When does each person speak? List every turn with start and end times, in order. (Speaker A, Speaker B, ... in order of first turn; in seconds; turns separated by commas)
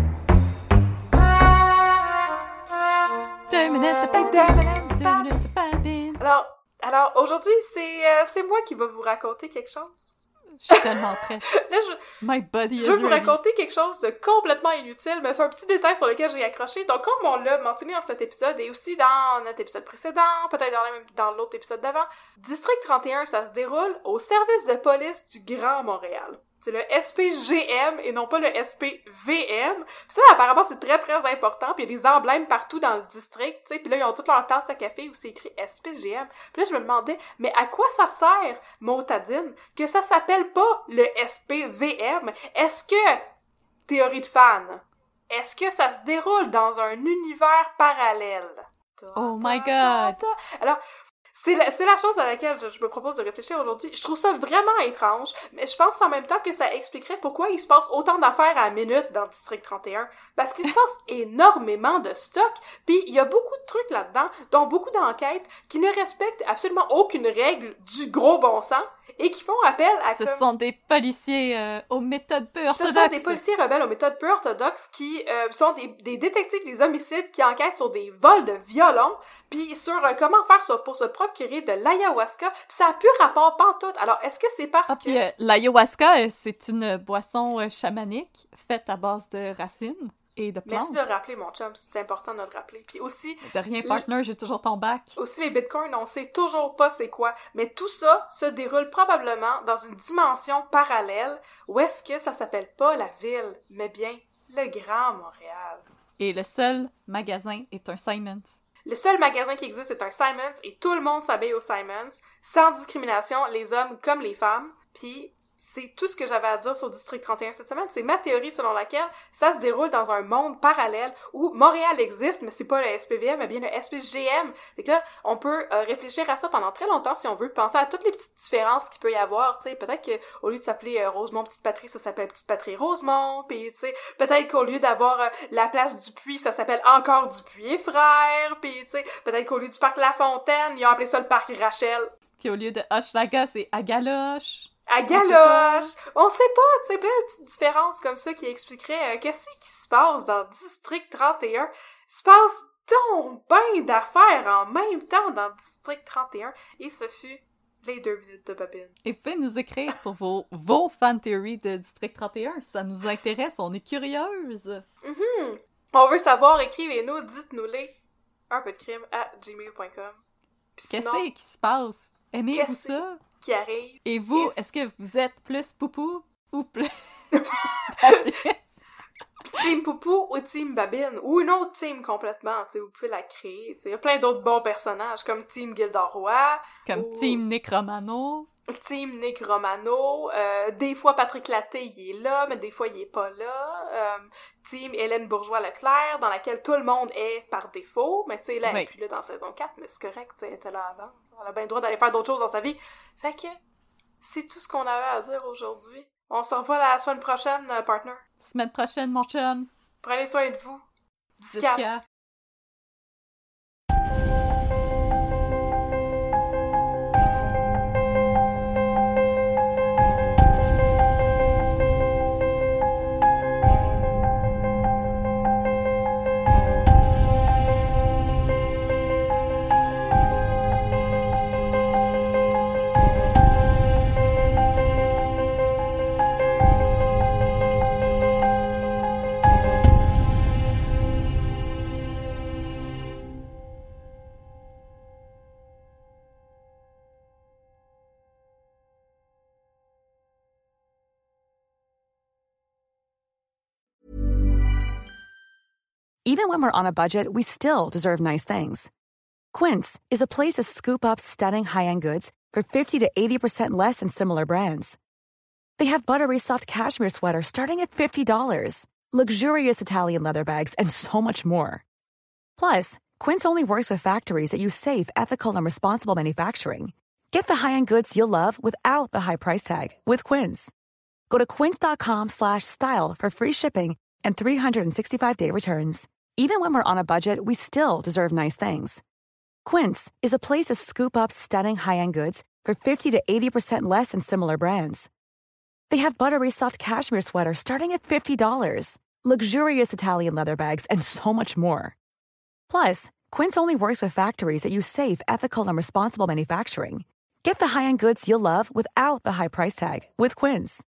Speaker A: 3.5-6.2, Speaker B: 4.1-5.2, Speaker B: 6.2-10.1, Speaker A: 10.6-11.6, Speaker B: 10.7-11.0, Speaker B: 11.6-12.0, Speaker A: 12.2-13.4, Speaker B: 12.8-43.2, Speaker B: 43.9-50.8, Speaker A: 49.1-50.2, Speaker B: 51.3-70.4, Speaker A: 70.1-73.4, Speaker B: 72.7-85.2, Speaker A: 84.9-91.0, Speaker B: 90.7-94.0, Speaker A: 93.4-95.2, Speaker B: 95.2-105.8, Speaker A: 106.2-108.5, Speaker B: 108.8-142.1, Speaker A: 142.4-145.9, Speaker B: 144.9-158.9, Speaker A: 159.0-164.8, Speaker B: 165.0-167.9, Speaker B: 168.5-170.2, Speaker B: 170.8-171.2, Speaker A: 170.9-173.2, Speaker B: 172.5-174.7, Speaker A: 174.0-178.6, Speaker B: 177.3-178.4, Speaker B: 179.5-187.4, Speaker A: 186.8-188.5, Speaker B: 188.7-203.6, Speaker A: 198.6-198.9, Speaker B: 204.2-208.2, Speaker A: 208.4-209.7, Speaker B: 210.0-210.8, Speaker B: 211.4-211.9, Speaker A: 211.5-212.0, Speaker C: 256.2-258.9, Speaker C: 259.5-265.0, Speaker C: 265.8-271.8, Speaker C: 272.6-280.7, Speaker C: 281.3-289.0, Speaker C: 289.6-295.1, Speaker C: 295.9-301.9, Speaker C: 302.7-310.8